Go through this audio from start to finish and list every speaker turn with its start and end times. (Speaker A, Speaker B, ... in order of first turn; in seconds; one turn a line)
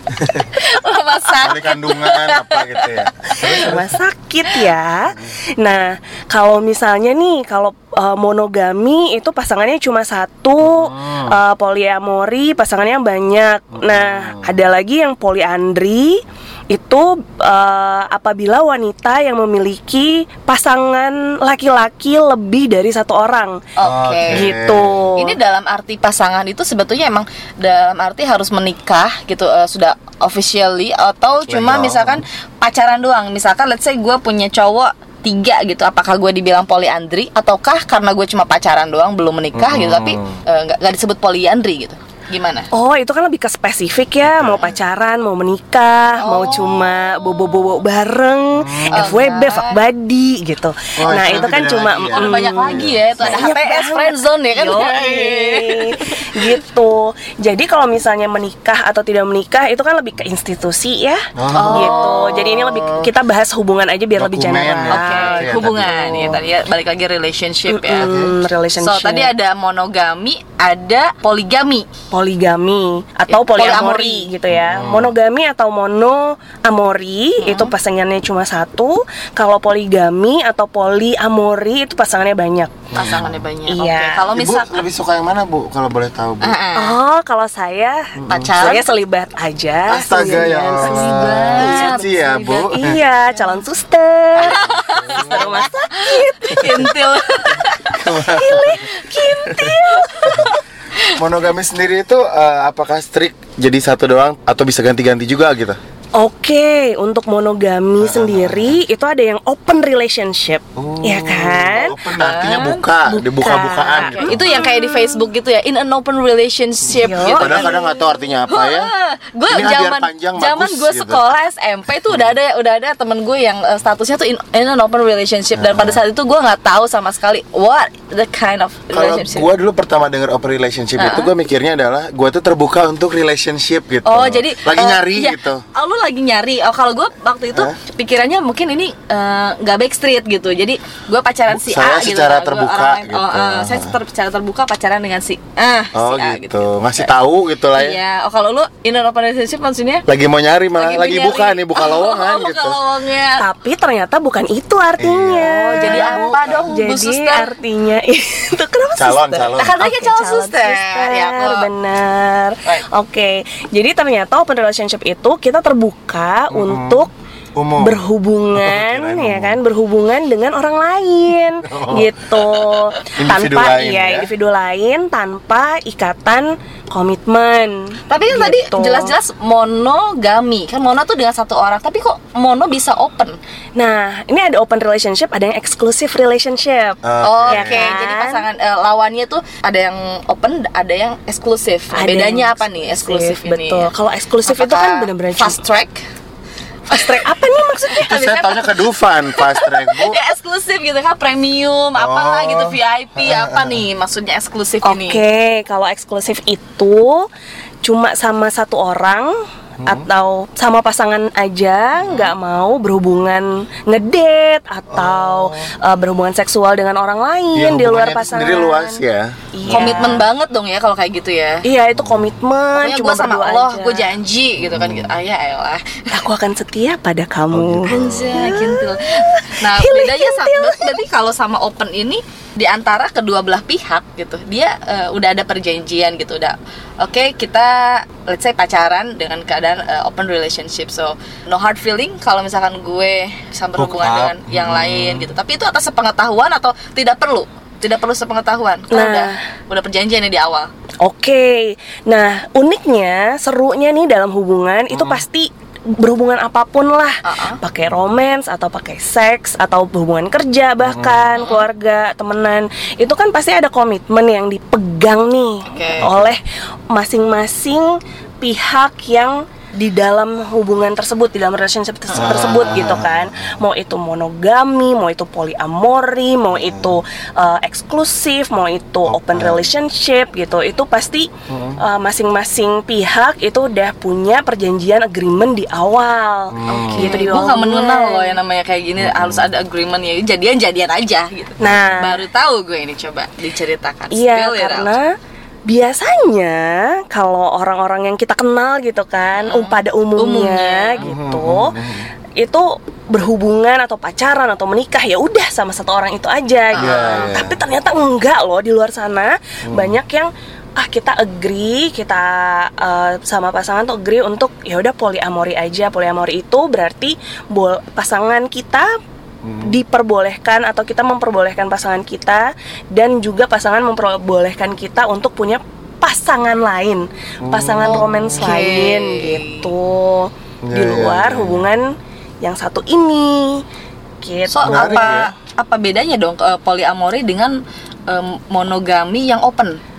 Speaker A: 0.1-0.5
Speaker B: 0.5-3.7
Speaker A: 1.4-3.9
Speaker C: 3.4-23.6
Speaker A: 10.6-11.4
Speaker A: 13.7-14.5
Speaker B: 23.8-24.5
Speaker A: 23.8-25.1
Speaker C: 24.3-25.4
Speaker B: 25.1-42.7
Speaker A: 31.4-32.2
Speaker A: 39.5-40.4
Speaker C: 42.7-66.4
Speaker A: 44.3-44.7
Speaker B: 46.2-47.7
Speaker A: 48.6-49.1
Speaker B: 48.9-49.8
Speaker A: 51.0-53.5
Speaker B: 52.1-56.5
Speaker A: 61.4-63.1
Speaker B: 61.5-62.7
Speaker A: 64.2-66.4
Speaker B: 64.9-68.1
Speaker C: 67.7-69.3
Speaker A: 68.0-68.3
Speaker B: 68.8-71.9
Speaker C: 72.1-82.9
Speaker B: 73.3-74.3
Speaker A: 74.5-75.1
Speaker B: 77.4-77.7
Speaker A: 82.9-83.3
Speaker B: 82.9-84.8
Speaker C: 83.7-84.3
Speaker A: 84.3-86.5
Speaker B: 86.4-87.0
Speaker C: 86.7-92.1
Speaker A: 88.2-88.5
Speaker B: 88.3-88.9
Speaker A: 89.9-93.0
Speaker B: 90.6-92.8
Speaker C: 92.7-96.9
Speaker B: 94.4-99.0
Speaker A: 94.5-95.7
Speaker A: 97.9-98.9
Speaker C: 98.2-100.5
Speaker A: 99.4-99.7
Speaker B: 99.8-101.1
Speaker A: 101.1-105.8
Speaker C: 106.2-112.0
Speaker A: 108.0-108.8
Speaker A: 110.8-114.6
Speaker B: 112.2-112.8
Speaker C: 113.0-115.2
Speaker B: 113.9-129.5
Speaker C: 116.9-117.8
Speaker A: 117.1-118.9
Speaker A: 119.5-121.2
Speaker A: 125.5-126.0
Speaker A: 128.9-135.6
Speaker B: 131.0-131.3
Speaker B: 134.0-147.1
Speaker A: 141.5-143.9
Speaker A: 145.9-148.0
Speaker B: 147.7-150.0
Speaker A: 150.1-152.8
Speaker B: 150.7-153.4
Speaker C: 153.4-167.1
Speaker A: 155.0-156.7
Speaker B: 155.4-157.5
Speaker A: 159.0-159.8
Speaker B: 159.6-161.7
Speaker A: 166.5-168.0
Speaker C: 167.8-179.1
Speaker A: 168.5-169.6
Speaker A: 171.7-172.6
Speaker A: 173.1-174.3
Speaker B: 178.1-183.4
Speaker C: 183.8-188.4
Speaker A: 187.0-187.9
Speaker B: 187.2-193.9
Speaker C: 191.9-195.6
Speaker B: 194.4-196.0
Speaker C: 196.9-198.3
Speaker B: 196.9-197.2
Speaker B: 197.9-205.2
Speaker A: 197.9-200.2
Speaker A: 201.9-203.8
Speaker C: 204.8-207.3
Speaker C: 207.8-219.0
Speaker B: 212.0-212.3
Speaker A: 214.9-215.7
Speaker A: 217.5-220.0
Speaker C: 219.5-220.2
Speaker B: 219.7-221.7
Speaker C: 221.6-224.1
Speaker B: 222.8-226.2
Speaker A: 224.8-225.1
Speaker C: 226.1-231.0
Speaker A: 227.5-228.4
Speaker B: 227.9-250.7
Speaker A: 243.8-245.3
Speaker C: 248.9-249.4
Speaker C: 251.0-288.4
Speaker A: 254.9-255.2
Speaker B: 257.2-257.6
Speaker A: 260.9-261.2
Speaker B: 261.3-261.6
Speaker B: 265.7-266.1
Speaker A: 266.0-266.3
Speaker A: 272.1-273.6
Speaker A: 276.6-276.9
Speaker A: 279.1-279.7
Speaker A: 281.5-281.8
Speaker A: 286.5-287.3
Speaker B: 286.7-295.0
Speaker A: 289.0-289.4
Speaker C: 291.6-292.2
Speaker A: 291.6-292.0
Speaker C: 294.1-301.8
Speaker B: 299.4-301.1
Speaker A: 301.0-302.1
Speaker C: 302.4-318.9
Speaker B: 306.7-307.4
Speaker A: 306.8-307.6
Speaker A: 309.6-309.9
Speaker A: 319.4-319.7
Speaker C: 319.6-333.6
Speaker A: 327.4-328.5
Speaker B: 327.8-329.7
Speaker A: 330.6-331.7
Speaker C: 334.2-335.2
Speaker B: 334.5-339.8
Speaker A: 334.6-335.3